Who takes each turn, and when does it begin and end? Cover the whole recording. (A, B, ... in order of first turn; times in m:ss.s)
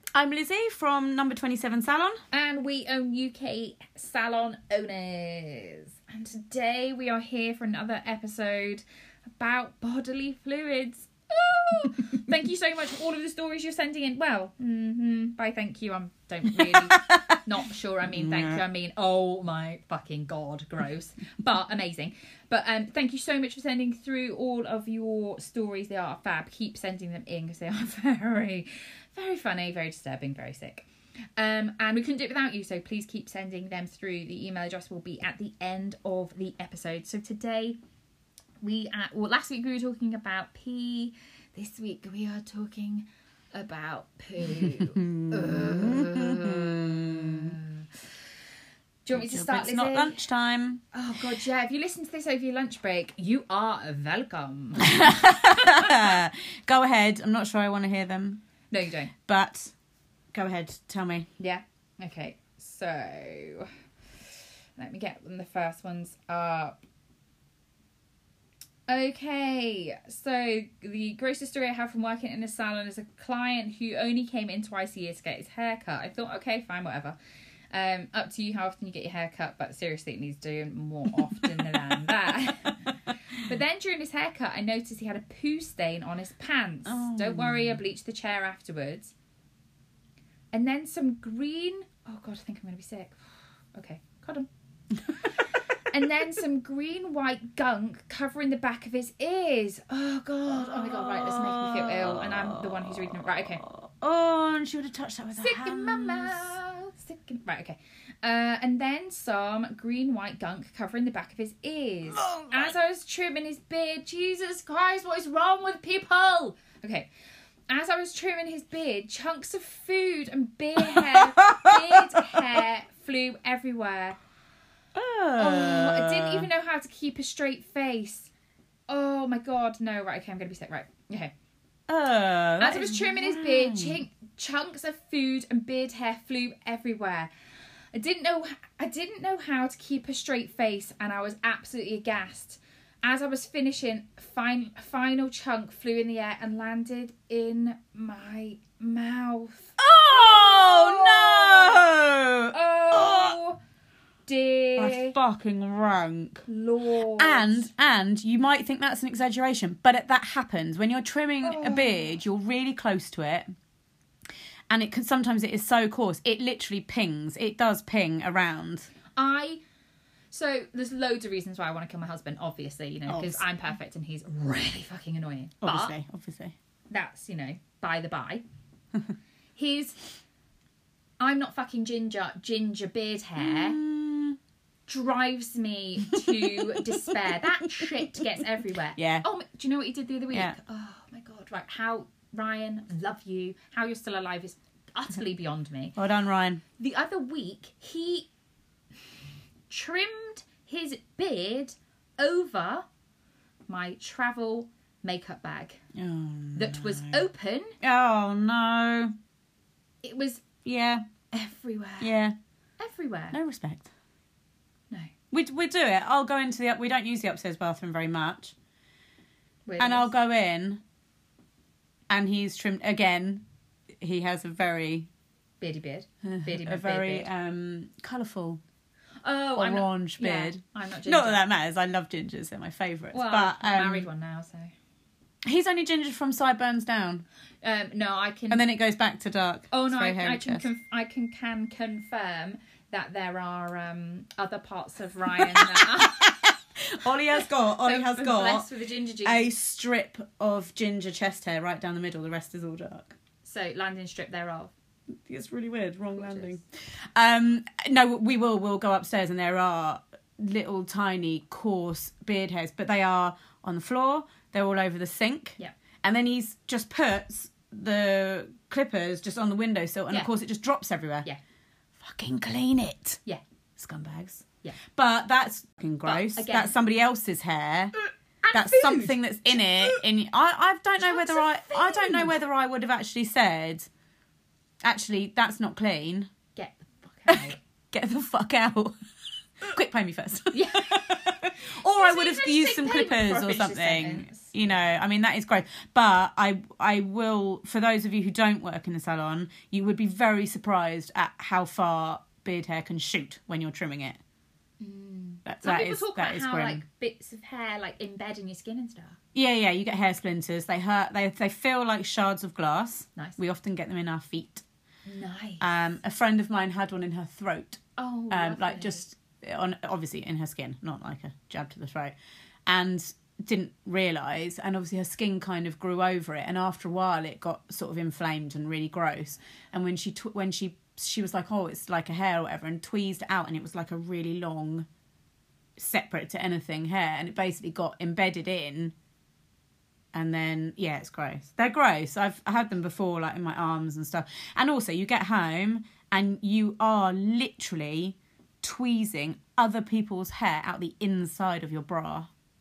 0:00.1-0:02.2 A
0:02.3-0:08.8 B
0:09.4-0:30.9 B
0:16.5-0:17.4 A
0:18.1-0:18.6 A
0:31.4-0:37.8 B
0:38.6-0:47.9 B
0:44.5-0:47.6 A
0:49.0-0:50.2 B
0:49.1-0:50.8 A
0:50.9-0:56.2 B
0:54.8-0:58.4 A
0:58.7-0:59.1 B
0:59.3-0:59.7 A
1:00.3-1:01.3 A
1:01.4-1:03.7 B
1:04.8-1:06.8 B
1:08.9-1:17.2 B
1:17.7-1:29.1 B
1:26.9-1:27.8 A
1:30.5-1:33.2 B
1:33.7-1:34.5 B
1:35.2-1:43.6 B
1:40.5-1:46.6 A
1:45.4-1:57.1 B
1:52.2-1:52.7 A
1:57.7-2:04.2 B
2:00.8-2:02.6 A
2:05.0-2:06.5 A
2:05.4-2:08.3 B
2:08.9-2:11.3 B
2:11.9-2:14.0 A
2:12.6-2:17.3 B
2:17.9-2:31.9 B
2:29.8-2:33.4 A
2:32.5-2:33.6 B
2:34.3-2:35.2 B
2:34.8-2:36.4 A
2:36.5-2:37.7 B
2:37.0-2:43.5 A
2:41.4-2:42.1 B
2:44.7-2:48.9 A
2:49.2-2:49.6 B
2:50.3-2:55.9 B
2:53.1-2:53.4 A
2:55.6-2:56.6 A
2:56.9-2:58.4 B
2:59.6-3:00.1 B
3:01.2-3:03.8 B
3:03.4-3:04.4 A
3:04.9-3:16.0 B
3:06.2-3:08.2 A
3:09.0-3:09.3 A
3:16.0-3:16.6 A
3:16.8-3:18.3 B
3:19.7-3:22.8 B
3:23.7-3:25.8 B
3:26.0-3:27.2 A
3:26.6-3:27.8 B
3:27.8-3:29.1 A
3:30.0-3:30.4 B
3:30.6-3:31.0 A
3:31.3-3:32.1 B
3:32.0-3:32.4 A
3:32.8-3:33.4 B
3:33.3-3:33.9 A
3:35.3-3:38.6 A
3:39.7-3:40.1 B
3:39.8-3:40.8 A
3:42.1-3:43.4 A
3:44.0-3:45.1 A
3:45.6-3:47.3 B
3:46.2-3:48.6 A
3:49.2-3:51.4 B
3:49.6-3:54.1 A
3:53.1-3:54.7 B
3:55.4-3:57.2 A
3:57.6-3:58.7 B
3:58.5-4:00.6 A
3:59.7-4:06.3 B
4:05.4-4:08.7 A
4:07.8-4:09.5 B
4:09.2-4:13.2 A
4:13.4-4:14.7 B
4:15.3-4:31.3 A
4:16.1-4:16.6 B
4:32.0-4:33.2 A
4:33.8-4:37.9 A
4:36.0-4:36.8 B
4:38.4-4:40.0 B
4:38.5-4:43.9 A
4:41.0-4:42.4 B
4:44.8-4:46.3 A
4:46.6-4:47.6 B
4:47.3-4:48.9 A
4:49.6-5:04.2 A
4:50.5-4:51.3 B
4:51.9-4:54.8 B
5:04.8-5:09.2 B
5:05.5-5:06.8 A
5:09.3-5:14.6 A
5:15.1-5:15.7 B
5:15.6-5:22.2 A
5:18.0-5:19.0 B
5:22.7-5:34.9 A
5:35.8-5:39.0 A
5:40.1-5:52.3 A